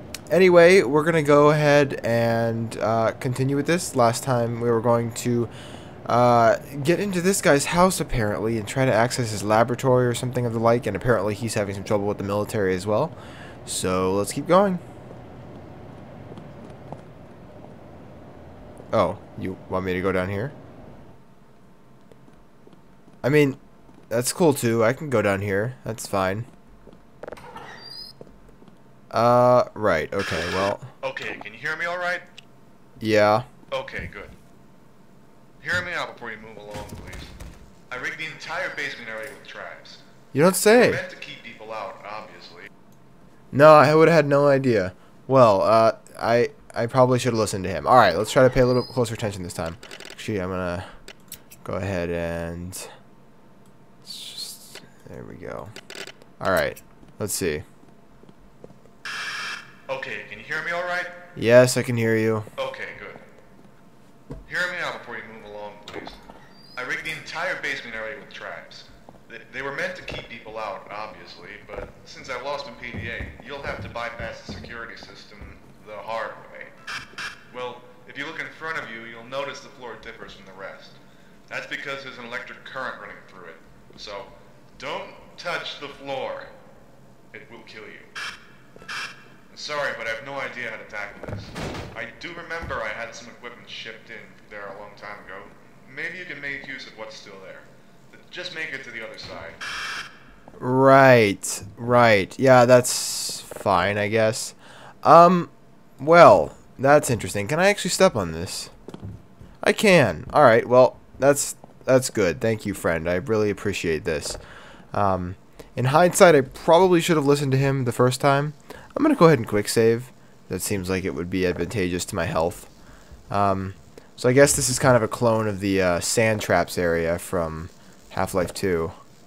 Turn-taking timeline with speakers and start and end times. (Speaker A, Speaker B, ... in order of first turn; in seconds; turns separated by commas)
Speaker A: 0.3-5.5, Speaker A: 6.0-14.8, Speaker A: 18.9-20.5, Speaker A: 23.2-26.5, Speaker A: 29.1-30.9, Speaker B: 31.0-32.3, Speaker A: 33.0-33.5, Speaker B: 33.7-34.4, Speaker B: 35.6-37.3, Speaker B: 37.9-40.0, Speaker A: 40.3-41.0, Speaker B: 40.7-42.7, Speaker A: 43.5-50.9, Speaker A: 51.6-52.9, Speaker A: 54.0-55.7, Speaker A: 56.4-57.6, Speaker B: 59.9-61.1, Speaker A: 61.3-62.5, Speaker B: 62.6-63.2, Speaker B: 64.4-66.2, Speaker B: 66.8-76.7, Speaker B: 77.5-86.5, Speaker B: 87.3-88.1, Speaker B: 89.5-99.6, Speaker A: 100.6-108.7, Speaker A: 109.6-114.4, Speaker A: 114.9-122.7, Speaker A: 123.3-128.9